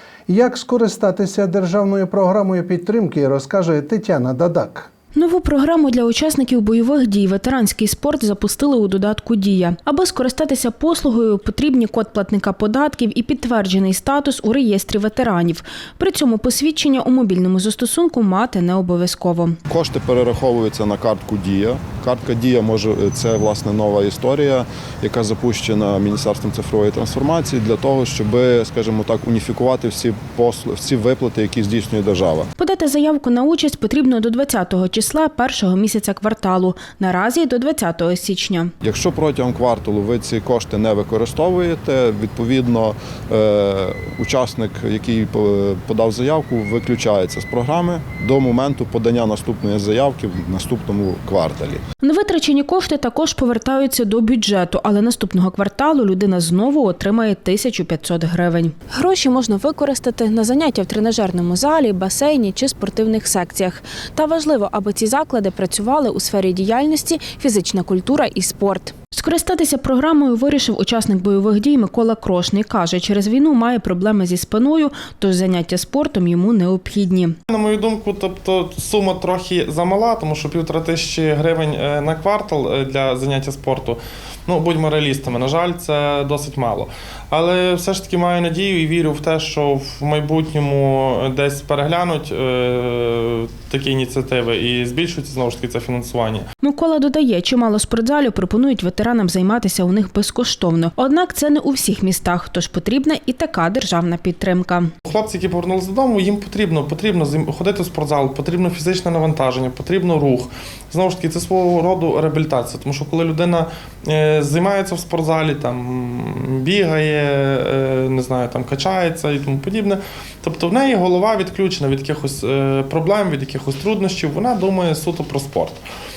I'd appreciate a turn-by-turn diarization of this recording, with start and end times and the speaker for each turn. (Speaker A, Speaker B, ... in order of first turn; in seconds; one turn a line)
Speaker A: 0.3-4.9
Speaker B: 5.1-19.6
Speaker C: 19.7-32.5
Speaker B: 32.6-38.7
Speaker C: 38.8-51.8
Speaker B: 52.0-77.3
Speaker D: 77.5-96.5
Speaker B: 96.6-104.9
Speaker D: 105.0-125.8